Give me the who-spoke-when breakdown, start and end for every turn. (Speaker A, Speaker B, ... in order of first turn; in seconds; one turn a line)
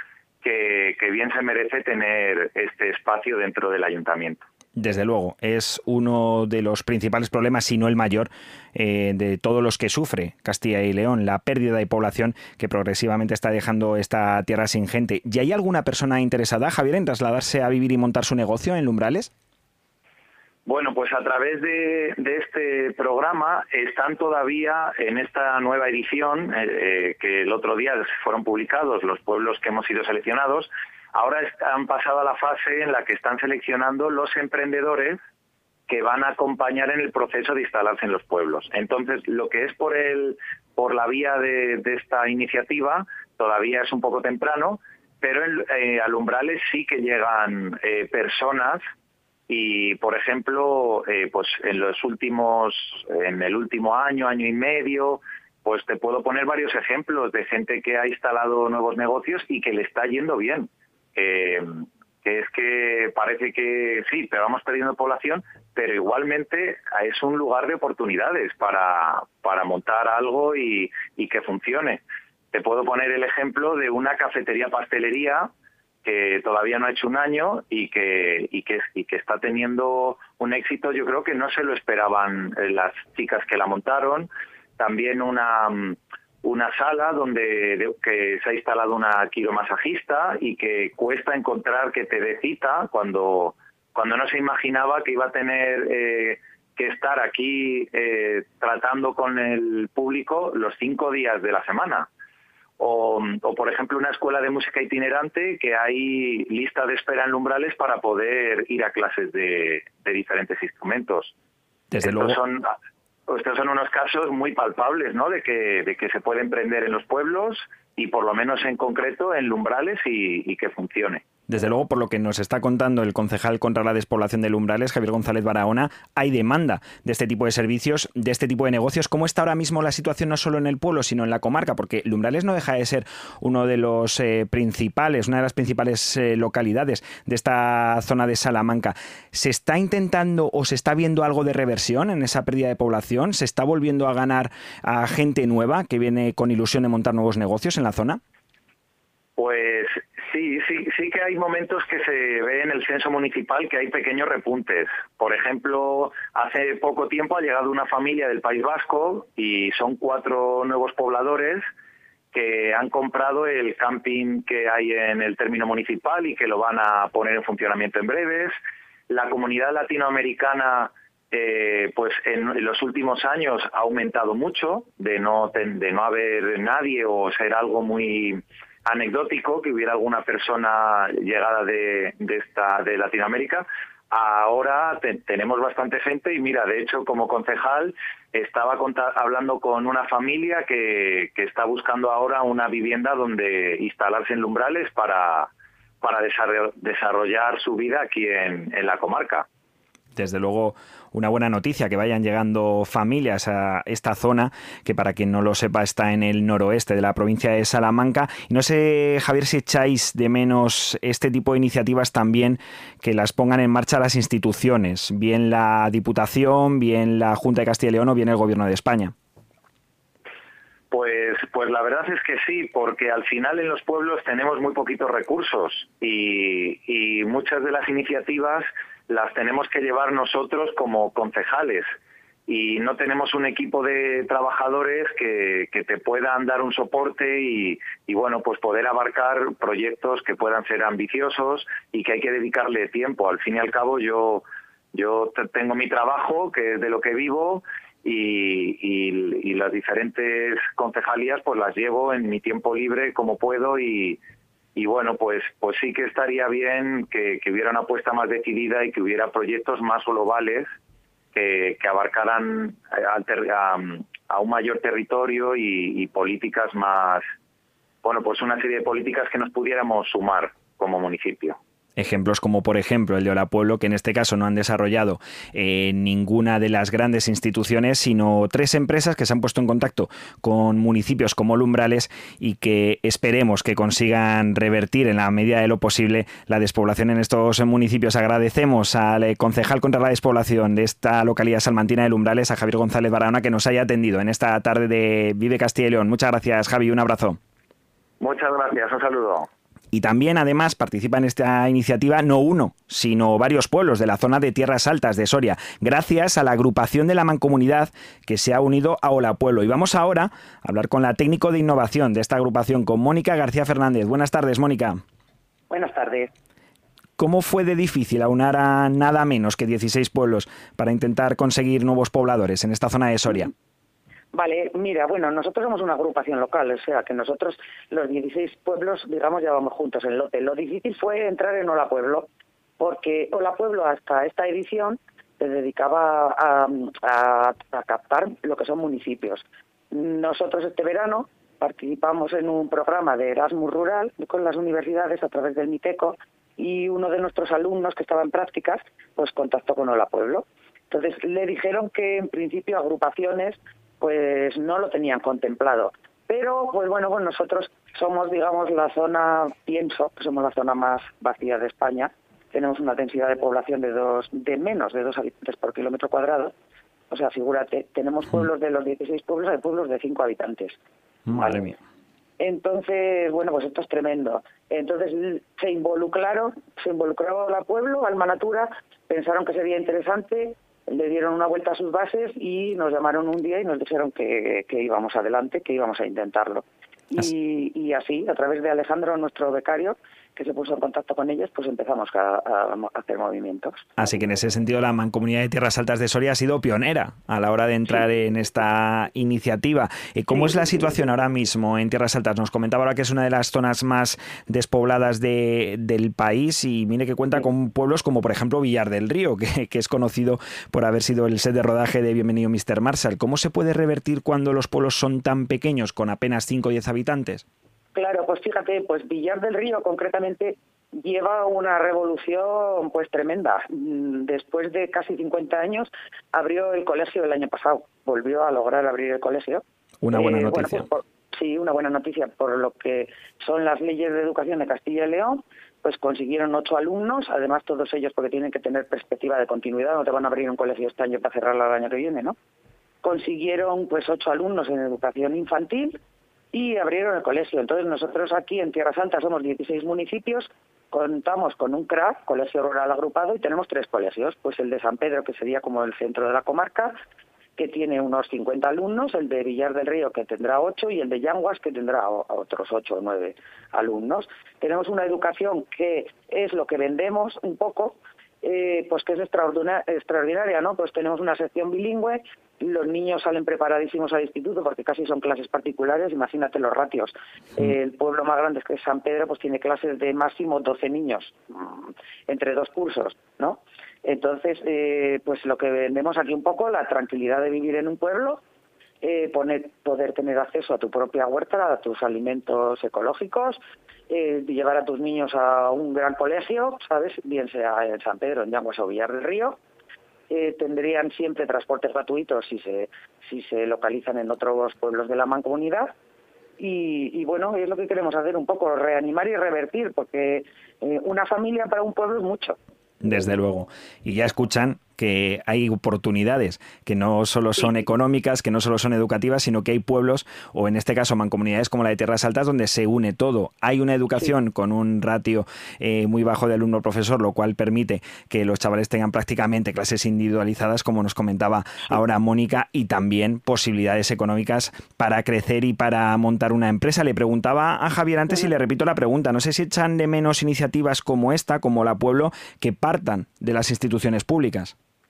Speaker A: 0.4-4.4
Speaker B: 4.8-19.3
Speaker A: 20.7-35.2
Speaker A: 35.9-48.8
Speaker A: 49.5-75.5
Speaker A: 76.0-102.1
Speaker A: 102.8-111.3
Speaker B: 111.9-112.4
Speaker A: 112.0-112.7
Speaker A: 113.3-121.2
Speaker B: 121.5-148.2
Speaker A: 149.4-161.7
Speaker A: 162.3-168.6
Speaker A: 169.1-195.5
Speaker A: 196.0-199.5
Speaker B: 200.2-219.1
Speaker A: 220.9-231.9
Speaker A: 232.5-254.2
Speaker A: 254.8-260.7
Speaker A: 261.3-267.2
Speaker A: 268.0-271.6
Speaker B: 272.0-297.4
Speaker A: 298.2-299.5
Speaker B: 299.9-315.0
Speaker C: 315.7-316.3
Speaker B: 317.2-323.5
Speaker C: 324.3-332.3
Speaker C: 332.8-366.5
Speaker C: 367.1-370.8
Speaker B: 371.3-371.8
Speaker C: 371.3-371.7
Speaker C: 372.4-393.9
Speaker B: 394.0-417.4
Speaker C: 417.9-442.4
Speaker B: 430.0-430.9
Speaker C: 443.0-446.0
Speaker C: 446.5-457.0
Speaker C: 457.6-488.4
Speaker C: 489.0-499.6
Speaker C: 500.3-505.9
Speaker C: 506.6-512.6
Speaker B: 513.0-544.8